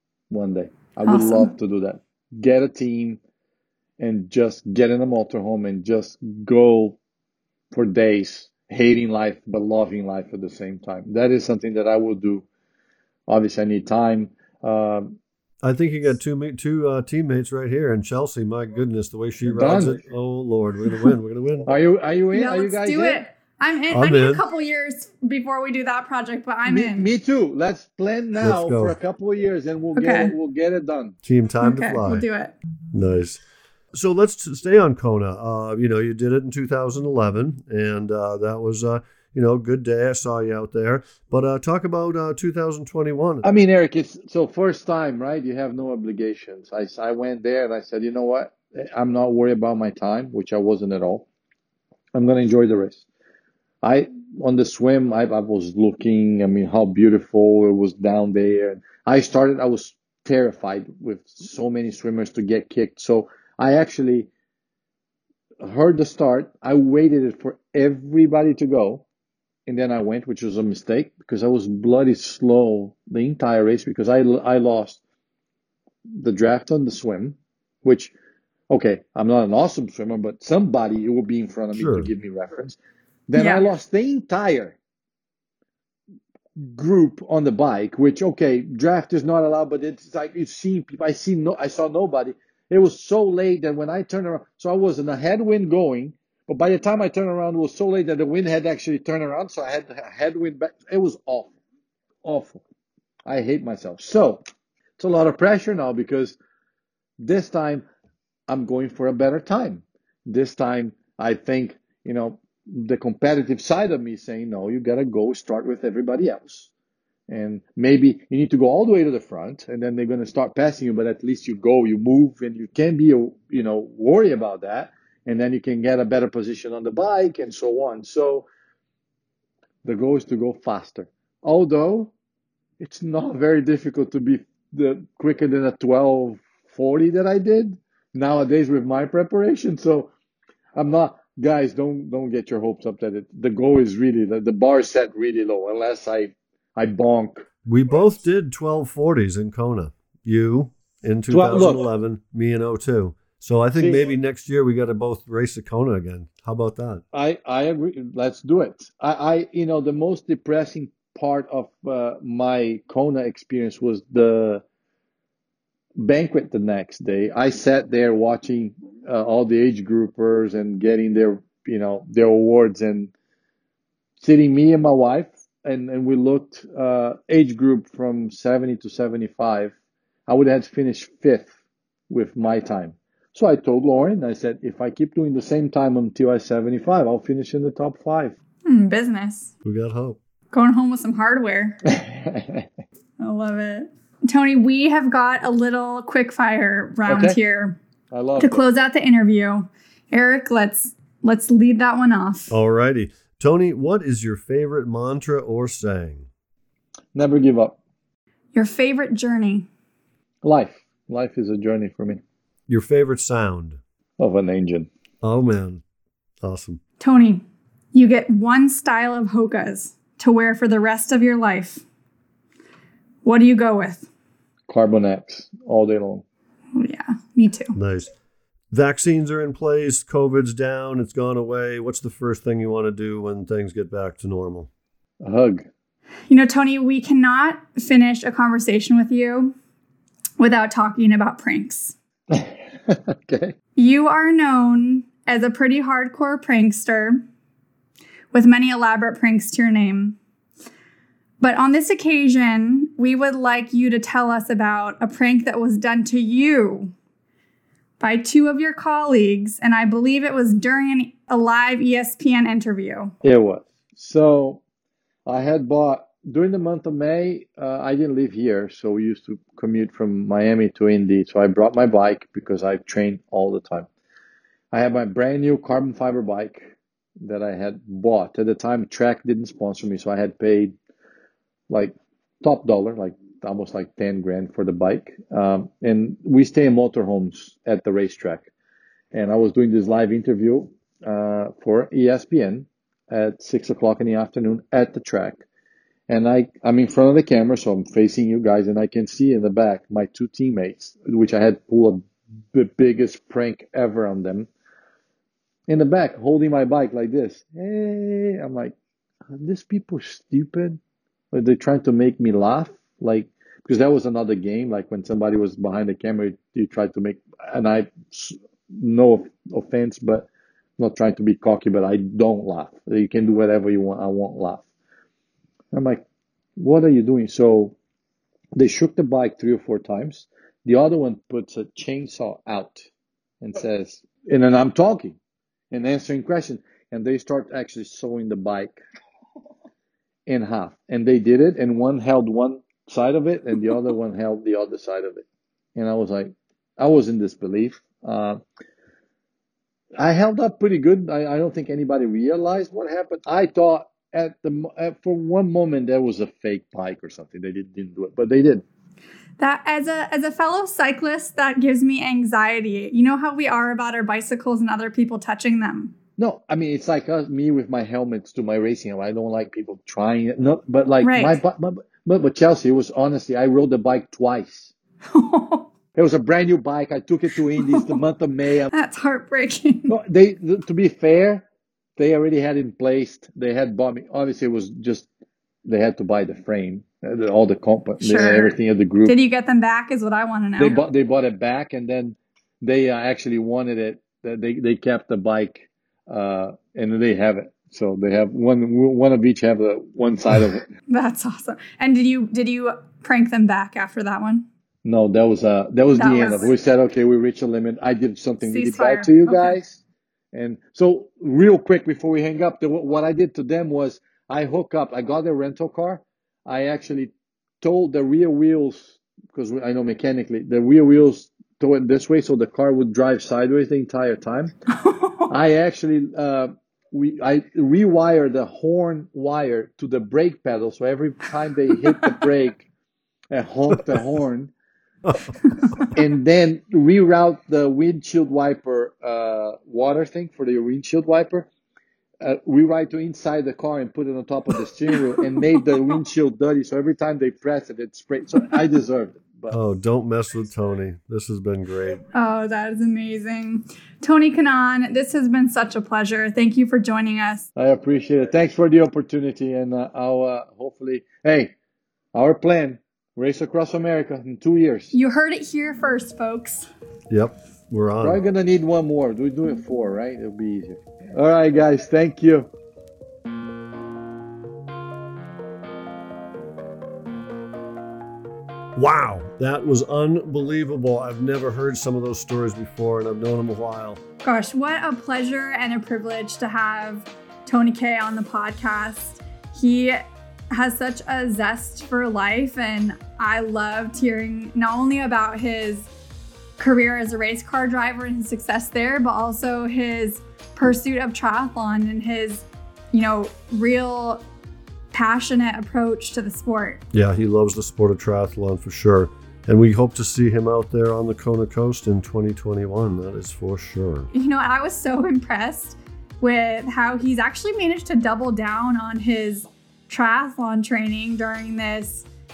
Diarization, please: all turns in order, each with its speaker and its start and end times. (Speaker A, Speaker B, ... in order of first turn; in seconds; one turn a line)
Speaker A: 0.3-3.2
Speaker B: 1.1-1.5
Speaker A: 4.0-7.0
Speaker A: 7.7-12.4
Speaker A: 13.3-15.2
Speaker C: 15.6-21.7
Speaker A: 19.5-20.0
Speaker A: 21.6-23.2
Speaker B: 22.3-27.1
Speaker C: 23.9-24.4
Speaker A: 26.6-31.1
Speaker C: 28.4-29.0
Speaker B: 29.9-30.3
Speaker C: 31.2-32.2
Speaker B: 31.6-32.5
Speaker C: 32.9-33.4
Speaker C: 33.9-43.5
Speaker A: 43.4-51.3
Speaker A: 52.1-53.0
Speaker A: 53.8-64.3
Speaker A: 65.6-69.0
Speaker A: 69.7-75.0
Speaker A: 76.1-78.1
Speaker A: 78.7-82.8
Speaker C: 81.7-82.1
Speaker A: 83.3-84.8
Speaker B: 83.3-83.7
Speaker A: 86.6-101.5
Speaker A: 102.2-102.6
Speaker A: 103.2-104.4
Speaker A: 105.0-106.3
Speaker A: 107.2-107.8
Speaker A: 108.5-116.7
Speaker A: 117.3-128.5
Speaker A: 129.8-132.1
Speaker A: 132.8-140.1
Speaker A: 140.8-147.5
Speaker C: 147.7-157.0
Speaker A: 151.3-151.8
Speaker A: 157.1-164.6
Speaker A: 166.0-173.1
Speaker A: 174.2-179.7
Speaker A: 180.3-181.5
Speaker A: 182.1-188.3
Speaker B: 188.7-189.5
Speaker C: 189.6-190.2
Speaker B: 190.5-191.8
Speaker A: 191.9-192.7
Speaker B: 193.2-197.8
Speaker A: 197.1-197.4
Speaker A: 198.1-198.6
Speaker B: 198.4-202.5
Speaker C: 202.5-206.3
Speaker A: 207.1-207.8
Speaker B: 208.5-209.7
Speaker A: 210.4-212.2
Speaker C: 212.7-213.8
Speaker A: 214.2-214.9
Speaker C: 215.2-215.8
Speaker C: 216.4-216.8
Speaker B: 217.0-221.8
Speaker B: 223.2-224.1
Speaker A: 224.7-226.2
Speaker B: 226.7-227.8
Speaker C: 227.7-228.1
Speaker C: 228.7-234.7
Speaker A: 235.2-235.7
Speaker B: 236.3-239.5
Speaker B: 240.4-241.9
Speaker A: 242.3-243.5
Speaker B: 243.8-247.2
Speaker B: 248.3-250.2
Speaker B: 251.4-256.9
Speaker B: 258.0-263.1
Speaker A: 263.2-264.6
Speaker A: 265.2-273.9
Speaker A: 274.7-280.7
Speaker A: 281.7-288.5
Speaker A: 289.1-295.4
Speaker A: 296.1-304.5
Speaker A: 305.7-308.7
Speaker A: 309.3-310.8
Speaker A: 311.3-320.3
Speaker A: 320.8-324.6
Speaker A: 325.7-326.0
Speaker A: 326.6-327.7
Speaker A: 328.5-332.9
Speaker A: 333.4-335.1
Speaker A: 335.7-338.8
Speaker A: 340.3-345.2
Speaker A: 345.8-348.4
Speaker A: 350.0-358.6
Speaker B: 359.4-365.9
Speaker A: 366.2-374.7
Speaker B: 371.0-371.4
Speaker B: 375.1-375.7
Speaker A: 375.9-378.7
Speaker B: 377.6-378.0
Speaker B: 378.7-379.9
Speaker A: 379.9-381.4
Speaker A: 382.0-385.1
Speaker A: 385.6-389.1
Speaker B: 388.0-388.5
Speaker B: 389.1-390.8
Speaker A: 390.6-400.7
Speaker B: 400.9-404.5
Speaker A: 404.8-409.8
Speaker B: 405.9-406.5
Speaker B: 408.4-409.6
Speaker A: 410.3-424.5
Speaker B: 424.7-425.3
Speaker A: 425.3-432.7
Speaker A: 433.3-434.5
Speaker C: 435.1-435.3
Speaker A: 435.9-441.5
Speaker A: 442.2-449.6
Speaker C: 449.5-452.0
Speaker B: 452.1-457.5
Speaker A: 457.6-461.5
Speaker A: 462.1-464.9
Speaker B: 464.9-466.7
Speaker C: 467.1-468.2
Speaker A: 468.0-472.5
Speaker C: 478.8-484.0
Speaker B: 484.2-495.9
Speaker B: 496.6-504.2
Speaker B: 504.9-506.8
Speaker C: 506.9-514.1
Speaker B: 514.1-522.1